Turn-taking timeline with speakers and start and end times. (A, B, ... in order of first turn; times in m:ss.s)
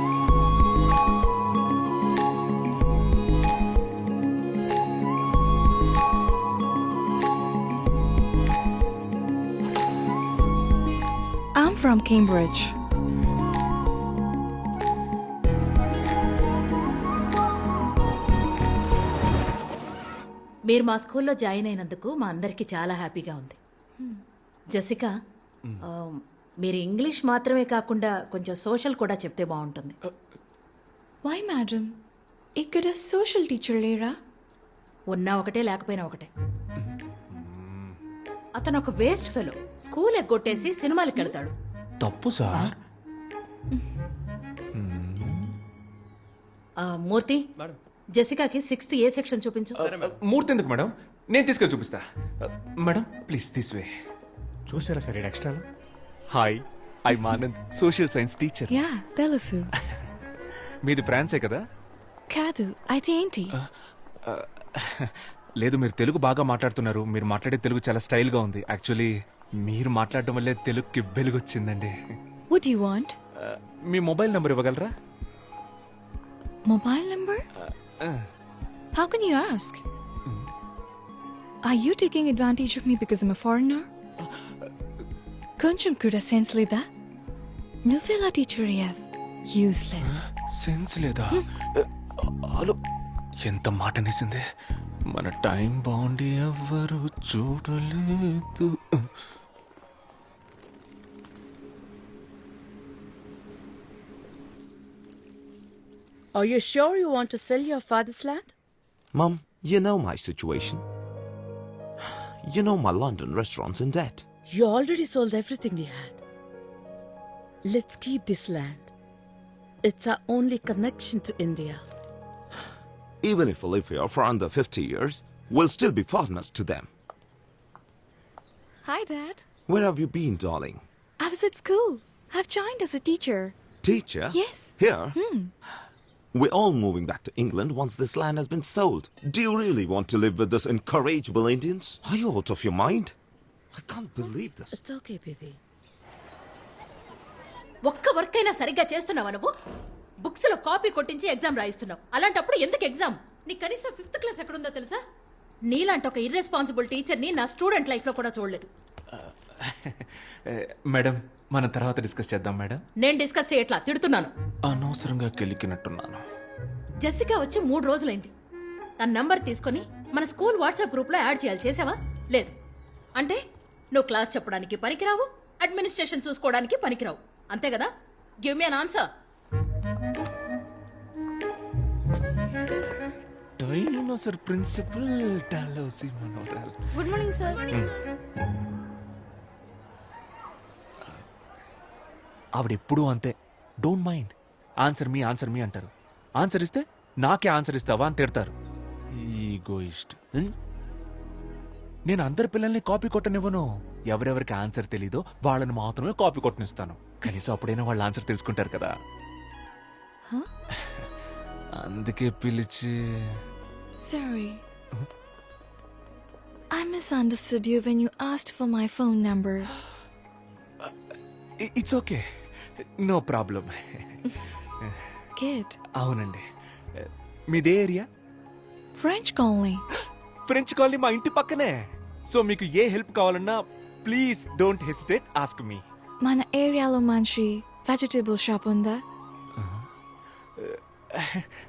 0:11.6-0:12.7 A
0:20.7-0:23.6 B
0:24.7-0:25.1 B
0:25.8-0:30.0 B
0:31.2-0:31.9 A
0:32.6-0:34.1 A
0:35.1-0:36.3 B
0:36.8-0:38.0 C
0:38.6-0:41.5 B
0:42.0-0:42.8 C
0:44.8-0:45.4 C
0:46.8-0:47.4 B
0:48.2-0:49.9 B
0:49.8-0:53.9 C
0:56.3-0:58.8 C
0:58.7-0:59.7 A
1:00.8-1:01.6 C
1:02.3-1:03.5 A
1:04.3-1:09.1 C
1:09.6-1:11.9 C
1:12.5-1:13.2 A
1:13.4-1:14.9 C
1:16.7-1:17.4 A
1:17.6-1:18.2 C
1:18.9-1:19.8 A
1:21.6-1:23.9 A
1:25.6-1:26.9 A
1:27.9-1:30.2 A
1:30.0-1:32.8 C
1:33.4-1:34.4 C
1:35.1-1:39.1 C
1:46.4-1:48.5 D
1:49.1-1:50.8 E
1:52.4-1:54.2 E
1:54.5-1:56.2 D
1:57.6-1:58.9 D
1:59.8-2:01.8 D
2:03.2-2:06.9 E
2:08.8-2:09.4 A
2:09.7-2:10.8 E
2:11.2-2:13.5 A
2:13.8-2:15.2 E
2:14.3-2:15.5 A
2:16.4-2:23.1 E
2:23.7-2:24.8 E
2:24.7-2:25.6 D
2:27.8-2:29.5 B
2:30.2-2:35.0 B
2:35.7-2:38.7 B
2:39.1-2:42.8 C
2:43.0-2:44.3 B
2:44.7-2:46.2 C
2:47.0-2:48.3 B
2:49.0-2:52.6 B
2:53.9-2:57.9 B
2:58.4-2:59.1 B
3:03.6-3:07.0 C
3:12.6-3:13.3 C
3:13.8-3:15.9 C
3:16.4-3:18.5 C
3:19.2-3:20.5 C
3:22.1-3:28.9 C
3:31.8-3:33.4 C
3:34.0-3:34.6 A
3:36.7-3:39.7 A
3:41.6-3:42.2 C
3:43.1-3:44.2 C
3:45.4-3:45.8 A
3:46.0-3:46.4 C
3:47.0-3:48.1 C
3:49.0-3:49.8 A
3:50.5-3:51.7 C
3:52.3-3:53.5 C
3:54.0-3:55.8 C
3:56.2-3:59.0 A
3:59.6-3:59.8 C
4:00.6-4:01.5 C